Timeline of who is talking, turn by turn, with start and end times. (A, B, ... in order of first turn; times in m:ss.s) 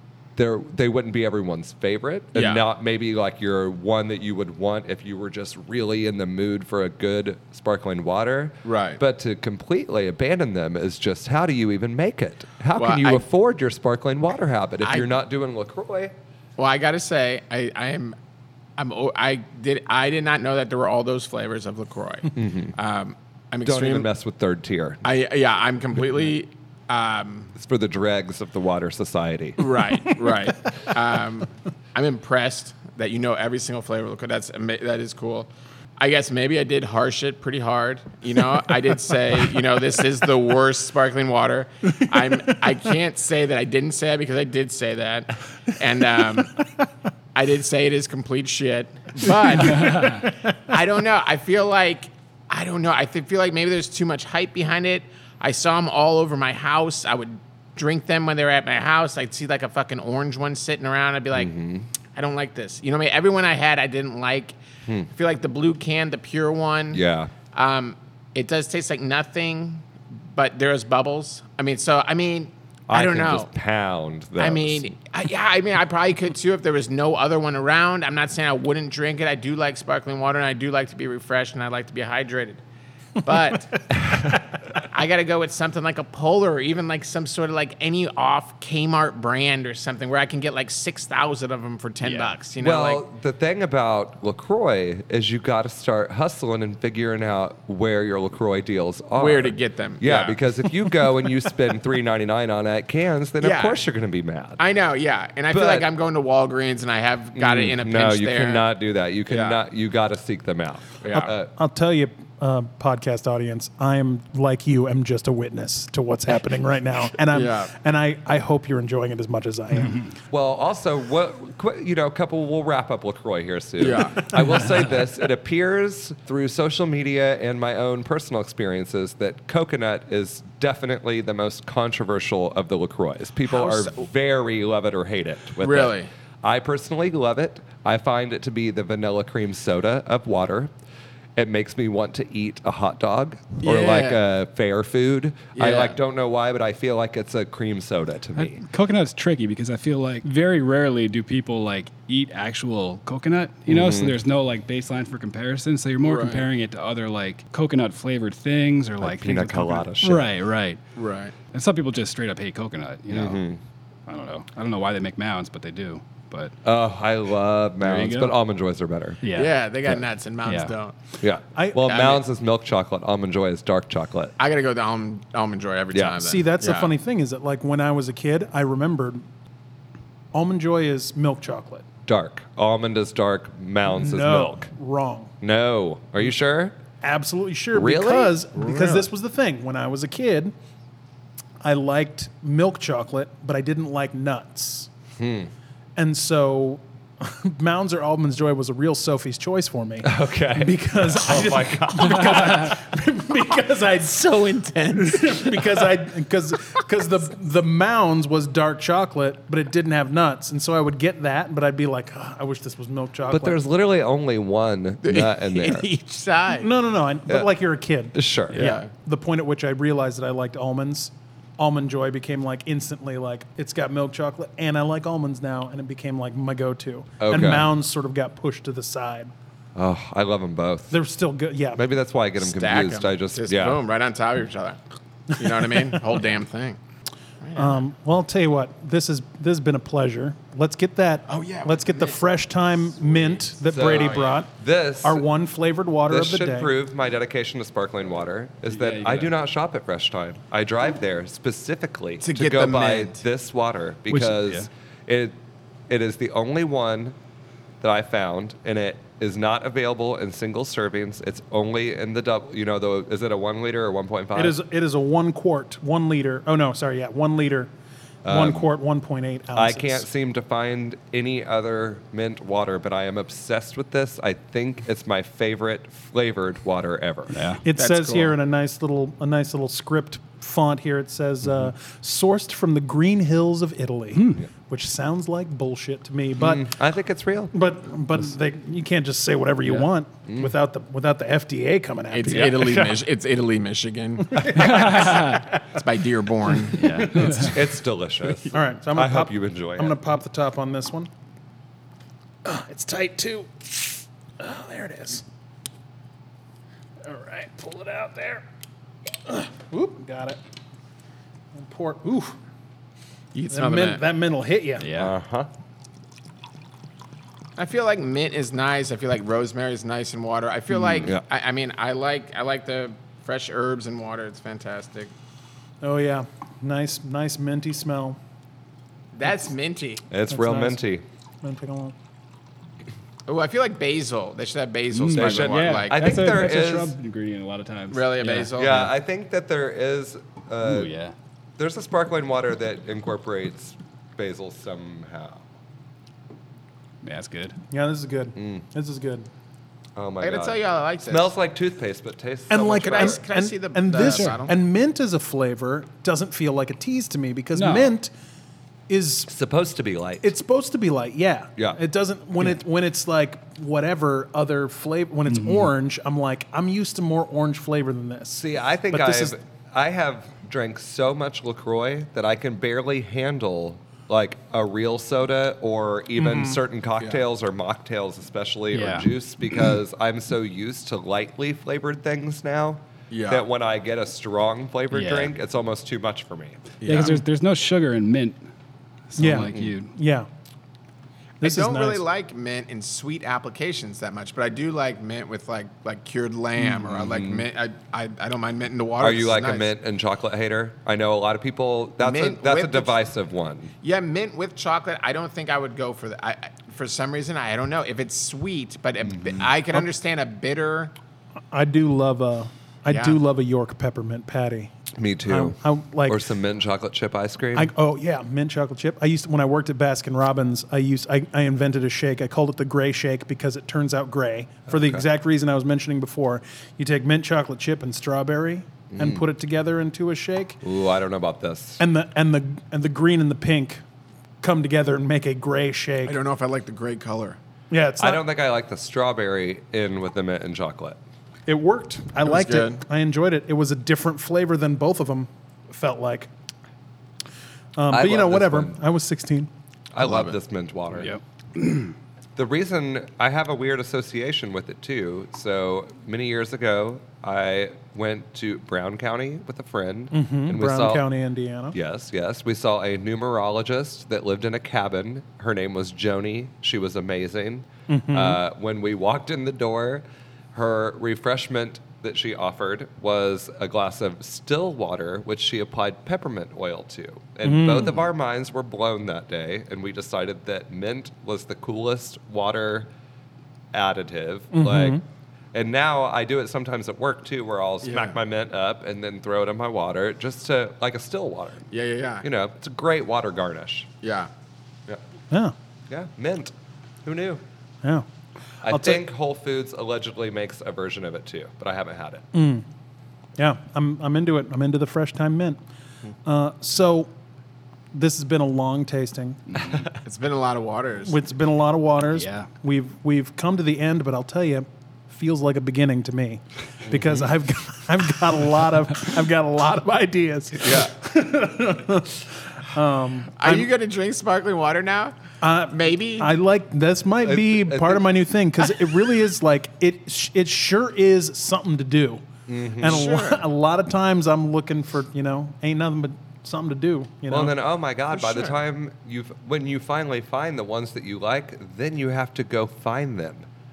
0:00.4-0:16.1 A
0:02.3-0:02.6 B
0:08.6-0:09.0 B
0:12.7-0:13.2 B
0:14.8-0:15.1 B
0:16.6-0:18.2 B
0:18.8-0:24.1 B
0:22.3-0:22.7 A
0:23.6-0:25.0 A
0:25.0-0:27.5 B
0:27.6-0:29.8 A
0:29.6-0:46.6 B
0:47.3-1:01.5 B
0:49.7-0:50.2 C
0:49.8-0:50.2 D
1:01.3-1:01.9 A
1:02.1-1:04.6 B
1:05.1-1:07.0 B
1:06.9-1:07.3 A
1:07.5-1:13.5 B
1:12.9-1:14.9 A
1:14.4-1:22.6 B
1:23.2-1:23.9 B
1:23.9-1:24.4 A
1:24.7-1:33.0 B
1:32.0-1:32.4 C
1:32.6-1:44.6 A
1:39.2-1:40.9 B
1:43.4-1:43.8 B
1:44.6-1:48.7 B
1:45.5-1:45.9 A
1:47.4-1:51.5 A
1:49.3-1:49.6 B
1:51.0-1:51.3 B
1:51.6-2:00.0 D
1:57.3-1:57.7 B
2:00.3-2:20.7 A
2:03.8-2:04.3 B
2:13.5-2:14.1 B
2:15.6-2:16.1 B
2:21.4-2:28.6 A
2:23.6-2:24.2 B
2:25.5-2:26.0 B
2:28.4-2:40.8 C
2:33.7-2:34.2 A
2:36.0-2:36.4 B
2:39.0-2:40.3 A
2:41.0-2:41.3 B
2:41.4-2:43.4 C
2:43.1-2:43.6 A
2:44.1-2:46.5 C
2:46.6-2:49.2 A
2:47.8-2:48.3 C
2:49.2-2:49.6 C
2:49.3-2:50.9 B
2:50.4-2:50.7 C
2:51.2-2:54.3 A
2:51.5-2:51.9 D
2:51.8-2:52.2 B
2:54.4-2:56.9 B
2:55.9-2:56.2 A
2:56.2-2:59.2 D
3:00.3-3:01.8 D
3:02.1-3:04.7 A
3:03.9-3:05.3 D
3:05.4-3:06.7 A
3:07.0-3:10.5 D
3:07.7-3:08.5 A
3:08.6-3:09.0 B
3:11.6-3:14.9 D
3:15.2-3:15.5 A
3:16.0-3:24.4 D
3:20.0-3:22.6 A
3:24.0-3:25.8 B
3:24.9-3:33.6 D
3:33.3-3:35.9 A
3:35.0-3:36.7 B
3:36.5-3:49.3 D
3:38.1-3:38.6 A
3:38.5-3:38.8 C
3:38.5-3:38.9 B
3:47.2-3:47.7 A
3:49.8-3:50.9 A
3:50.9-3:51.8 D
3:51.8-3:53.8 A
3:52.4-3:54.8 B
3:55.3-3:56.8 B
3:55.3-3:56.0 D
3:57.4-3:57.8 B
3:57.6-4:06.7 D
4:01.3-4:02.2 B
4:03.7-4:05.2 A
4:03.7-4:04.4 B
4:06.1-4:15.4 A
4:08.7-4:09.3 C
4:12.2-4:13.2 B
4:14.1-4:14.7 C
4:15.9-4:17.2 A
4:17.8-4:24.6 A
4:24.3-4:27.7 D
4:28.2-4:28.7 A
4:28.2-4:30.1 D
4:29.5-4:37.4 A
4:37.3-4:37.6 C
4:37.6-4:46.7 D
4:37.8-4:38.4 B
4:44.1-4:44.5 C
4:46.4-4:47.5 A
4:47.5-4:53.0 D
4:50.3-4:50.5 A
4:52.1-4:57.1 B
4:54.2-4:55.8 D
4:54.5-4:55.5 C
4:56.7-4:57.6 C
4:56.8-4:57.6 D
4:57.2-5:00.0 A
4:58.5-5:01.1 D
5:02.4-5:05.2 D
5:07.0-5:08.4 D
5:09.2-5:10.4 D
5:11.5-5:12.4 D
5:13.3-5:14.0 B
5:13.5-5:14.9 D
5:14.8-5:15.1 C
5:14.9-5:15.5 A
5:17.6-5:25.1 B
5:20.8-5:21.0 C
5:25.8-5:28.2 D
5:29.1-5:30.0 B
5:30.1-5:31.0 A
5:30.3-5:30.8 D
5:31.4-5:31.9 D
5:33.3-5:36.2 B
5:34.9-5:38.9 C
5:35.1-5:36.9 A
5:37.9-5:38.9 B
5:38.6-5:40.9 A
5:40.6-5:41.1 C
5:41.6-5:45.4 A
5:47.0-5:47.6 C
5:47.7-5:49.3 D
5:48.4-5:48.6 A
5:50.0-5:53.2 A
5:50.2-5:51.3 B
5:52.5-5:58.1 D
5:52.8-5:54.5 B
5:54.0-5:54.5 C
5:57.5-5:57.9 C
5:58.9-5:59.3 D
5:59.3-6:00.3 A
6:00.2-6:09.4 D
6:05.3-6:05.7 C
6:08.3-6:26.7 A
6:16.2-6:16.6 D
6:18.7-6:19.1 C
6:23.1-6:23.4 B
6:24.9-6:25.3 C
6:26.8-6:27.2 B
6:26.8-6:28.4 C
6:29.1-6:29.9 C
6:29.2-6:30.3 D
6:29.4-6:29.7 A
6:31.4-6:32.0 D
6:31.4-6:39.7 B
6:36.7-6:37.4 A
6:39.0-6:43.7 A
6:42.0-6:43.0 B
6:43.8-6:50.9 B
6:51.5-6:54.7 D
6:52.9-6:53.2 B
6:55.0-6:57.7 A
6:55.3-6:56.2 D
6:57.5-7:10.6 D
7:04.7-7:05.0 A
7:08.9-7:09.2 A
7:10.6-7:11.8 A
7:11.8-7:13.8 D
7:14.4-7:16.2 D
7:16.0-7:17.4 B
7:17.7-7:18.2 D
7:18.0-7:21.0 A
7:21.5-7:26.3 D
7:22.2-7:22.8 B
7:27.8-7:29.5 D
7:27.9-7:28.8 A
7:29.9-7:31.1 A
7:30.0-7:30.4 B
7:30.9-7:31.9 C
7:32.3-7:41.0 A
7:40.1-7:41.8 D
7:41.7-8:02.9 A
7:47.9-7:48.4 D
7:57.4-7:58.0 D
8:03.7-8:05.0 A
8:04.5-8:05.0 D
8:05.5-8:11.6 A
8:07.8-8:08.2 B
8:11.7-8:12.2 B
8:12.2-8:13.9 A
8:14.0-8:14.3 B
8:15.9-8:16.5 A
8:17.0-8:17.4 A
8:18.6-8:22.2 A
8:18.6-8:19.0 D
8:22.3-8:22.6 D
8:23.4-8:25.6 D
8:26.2-8:27.1 D
8:27.9-8:29.4 D
8:29.5-8:29.9 C
8:30.0-8:31.2 B
8:31.0-8:43.7 D
8:32.1-8:32.5 C
8:40.6-8:40.9 A
8:43.4-8:45.1 B
8:45.4-8:52.2 D
8:45.7-8:46.3 B
8:47.2-8:48.0 A
8:52.5-8:53.4 A
8:52.8-8:57.5 D
8:52.8-8:53.4 B
8:57.3-9:03.5 A
8:58.1-8:58.6 B